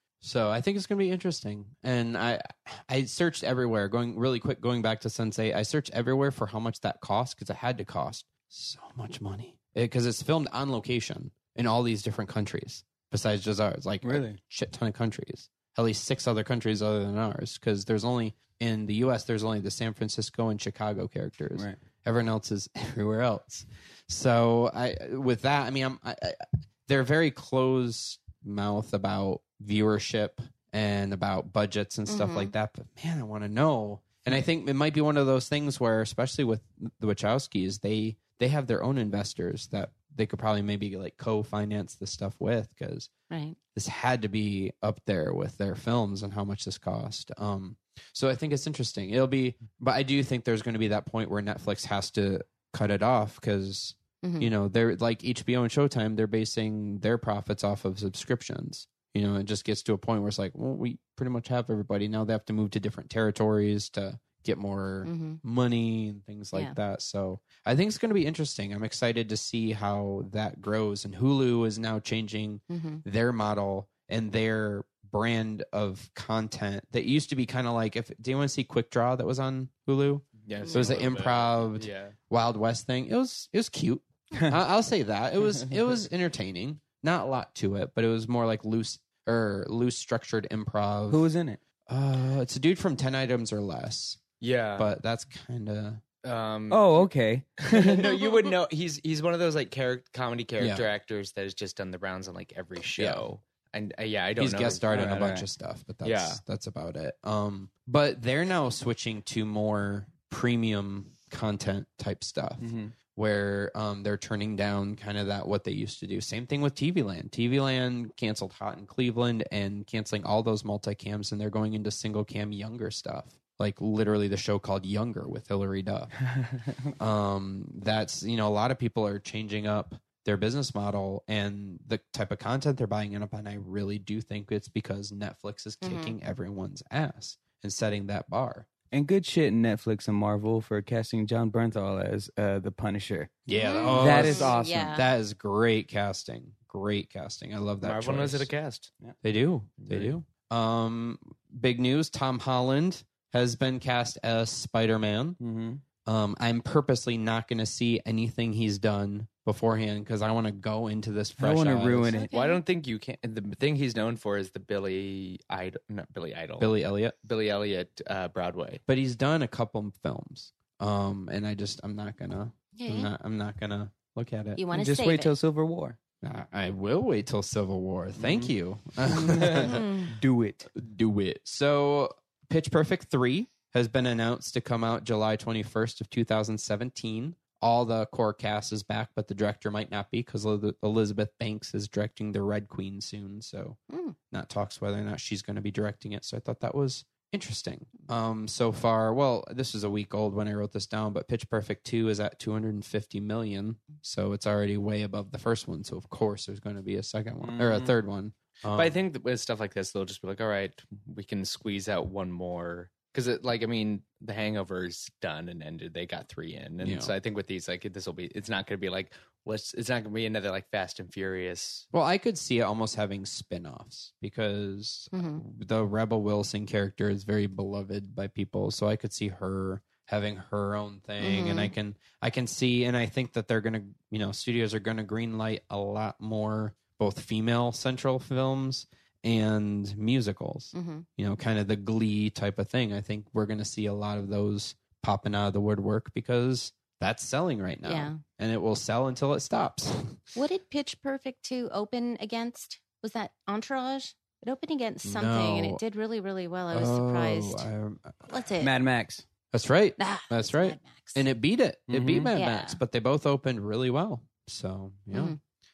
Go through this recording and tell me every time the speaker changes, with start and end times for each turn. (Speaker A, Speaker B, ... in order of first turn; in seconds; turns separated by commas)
Speaker A: 0.2-43.1, Speaker B: 14.0-14.4, Speaker C: 32.1-32.5, Speaker C: 43.3-43.6, Speaker A: 43.7-91.3, Speaker C: 54.2-54.5, Speaker C: 65.0-65.4, Speaker C: 72.7-73.0, Speaker D: 80.4-82.1, Speaker B: 91.1-91.6, Speaker A: 91.9-94.2, Speaker D: 94.4-94.9, Speaker A: 94.8-96.0, Speaker D: 96.2-97.1, Speaker B: 96.7-98.1, Speaker D: 97.7-105.1, Speaker A: 100.6-100.8, Speaker A: 103.0-103.2, Speaker A: 104.4-126.1, Speaker B: 104.9-105.5, Speaker D: 106.0-106.4, Speaker B: 112.6-112.9, Speaker A: 127.0-138.7, Speaker C: 135.8-136.1, Speaker B: 138.9-143.3, Speaker A: 143.4-148.5, Speaker C: 143.5-145.1, Speaker B: 143.9-144.9, Speaker D: 147.8-148.9, Speaker A: 149.2-155.4, Speaker D: 149.8-150.1, Speaker B: 155.4-155.8, Speaker A: 156.0-162.2, Speaker B: 161.4-162.3, Speaker C: 162.1-162.6, Speaker D: 162.3-166.7, Speaker A: 166.6-167.2, Speaker D: 167.2-168.8, Speaker A: 168.9-174.6, Speaker C: 172.7-173.1, Speaker C: 174.5-175.3, Speaker B: 174.7-176.0, Speaker A: 176.2-180.1, Speaker B: 178.2-178.5, Speaker B: 179.1-180.7, Speaker C: 179.7-180.0, Speaker A: 180.7-193.8, Speaker C: 193.9-194.2, Speaker A: 194.3-209.0, Speaker B: 207.4-207.9, Speaker D: 208.7-221.9, Speaker A: 216.8-217.1, Speaker A: 221.9-250.2, Speaker C: 225.1-225.4, Speaker C: 231.2-231.7, Speaker C: 240.7-241.1, Speaker C: 247.8-248.2, Speaker C: 250.3-257.7, Speaker A: 255.0-255.8, Speaker A: 256.7-258.3, Speaker C: 258.3-258.7, Speaker B: 258.6-259.2, Speaker A: 259.5-265.4, Speaker C: 260.0-261.2, Speaker B: 261.9-262.3, Speaker C: 262.3-262.8, Speaker C: 265.1-265.4